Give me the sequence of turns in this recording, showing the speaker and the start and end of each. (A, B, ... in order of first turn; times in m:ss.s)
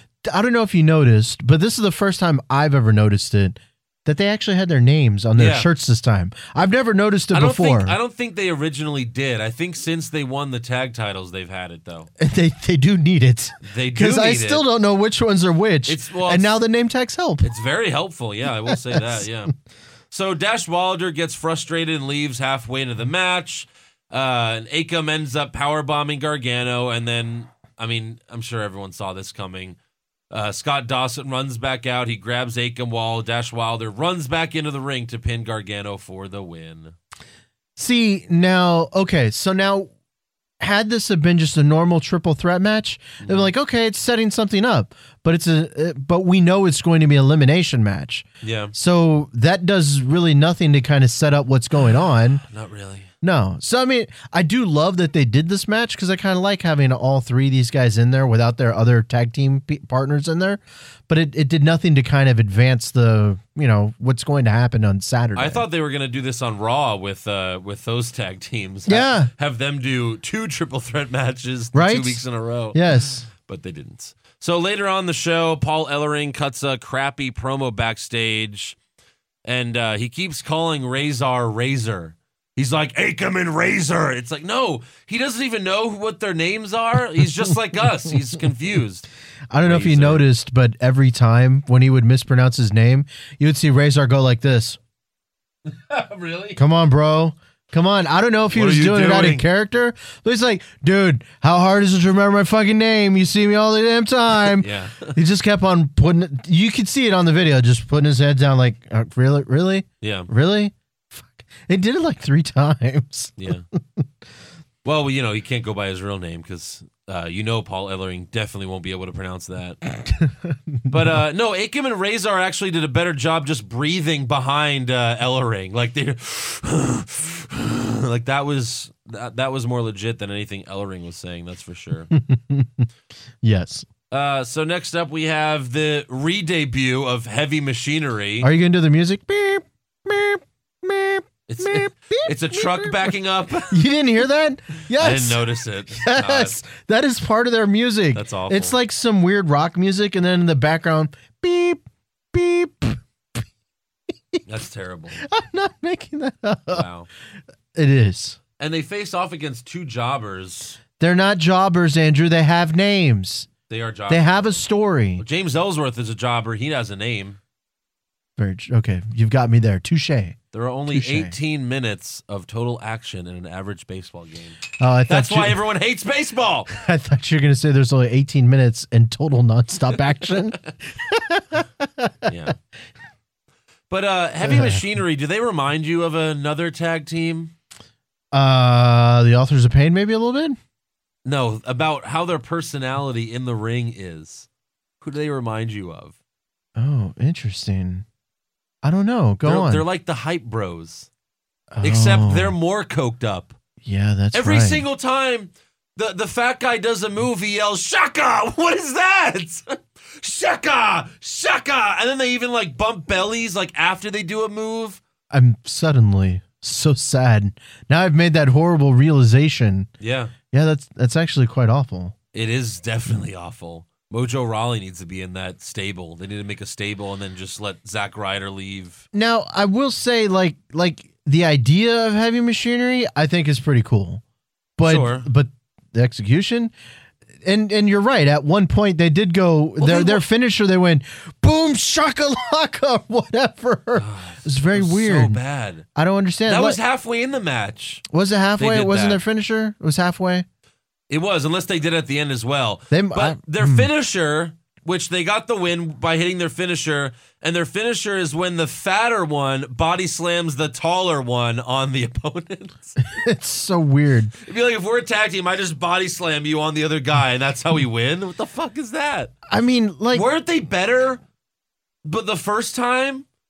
0:00.2-0:08.0 A
0:05.4-0:05.7 B
0:07.3-0:12.1 B
0:12.2-0:17.5 A
0:13.6-0:14.7 B
0:15.9-0:16.6 B
0:17.4-0:19.5 B
0:18.7-0:19.3 A
0:20.1-0:29.8 B
0:30.3-0:37.0 B
0:37.8-0:39.9 A
0:40.6-0:52.4 A
0:43.2-0:43.5 B
0:48.4-0:48.7 B
0:52.4-0:53.1 B
0:53.2-1:05.6 A
1:05.4-1:12.8 B
1:08.9-1:09.3 A
1:11.7-1:12.2 A
1:12.7-1:13.3 A
1:13.3-1:18.8 B
1:19.4-1:29.1 B
1:29.5-1:34.8 A
1:29.6-1:30.3 B
1:35.7-1:36.6 B
1:36.6-1:53.4 A
1:38.5-1:39.4 B
1:44.6-1:45.2 B
1:50.0-1:50.3 B
1:53.4-1:53.7 B
1:54.8-1:59.8 B
2:00.0-2:01.2 A
2:00.9-2:12.1 B
2:12.1-2:12.9 A
2:13.4-2:13.9 A
2:14.1-2:18.5 B
2:18.4-2:23.1 A
2:21.5-2:23.8 B
2:23.7-2:31.8 A
2:25.0-2:26.6 B
2:28.2-2:28.8 B
2:32.3-2:33.4 A
2:34.5-2:35.2 B
2:35.2-2:36.8 A
2:36.7-2:37.1 B
2:37.8-2:38.4 A
2:38.6-2:40.8 B
2:41.0-2:43.5 A
2:43.7-2:44.6 B
2:44.1-2:45.2 A
2:45.2-2:47.4 B
2:48.4-2:50.4 A
2:50.5-2:56.7 B
2:50.9-2:51.3 A
2:54.8-2:55.6 A
2:56.7-3:02.3 A
3:02.3-3:02.6 B
3:03.9-3:07.5 B
3:04.4-3:04.8 A
3:08.3-3:10.6 A
3:11.2-3:14.5 B
3:15.0-3:16.2 B
3:16.8-3:18.0 A
3:18.8-3:19.8 A
3:19.4-3:21.1 B
3:21.7-3:22.6 A
3:21.8-3:23.6 B
3:23.8-3:24.8 A
3:24.3-3:35.0 B
3:35.3-3:39.9 A
3:40.0-3:40.3 B
3:40.5-3:42.1 A
3:42.3-3:49.1 B
3:49.1-3:54.2 A
3:54.8-3:56.7 A
3:54.8-3:55.3 B
3:57.4-4:05.4 A
3:59.8-4:00.2 B
4:04.0-4:05.9 B
4:06.0-4:06.8 A
4:06.5-4:08.0 B
4:08.1-4:10.4 A
4:08.6-4:09.2 B
4:11.1-4:23.0 B
4:12.9-4:13.9 A
4:23.0-4:24.3 A
4:24.4-4:29.3 B
4:29.5-4:30.3 A
4:30.1-4:31.2 B
4:32.0-4:33.3 B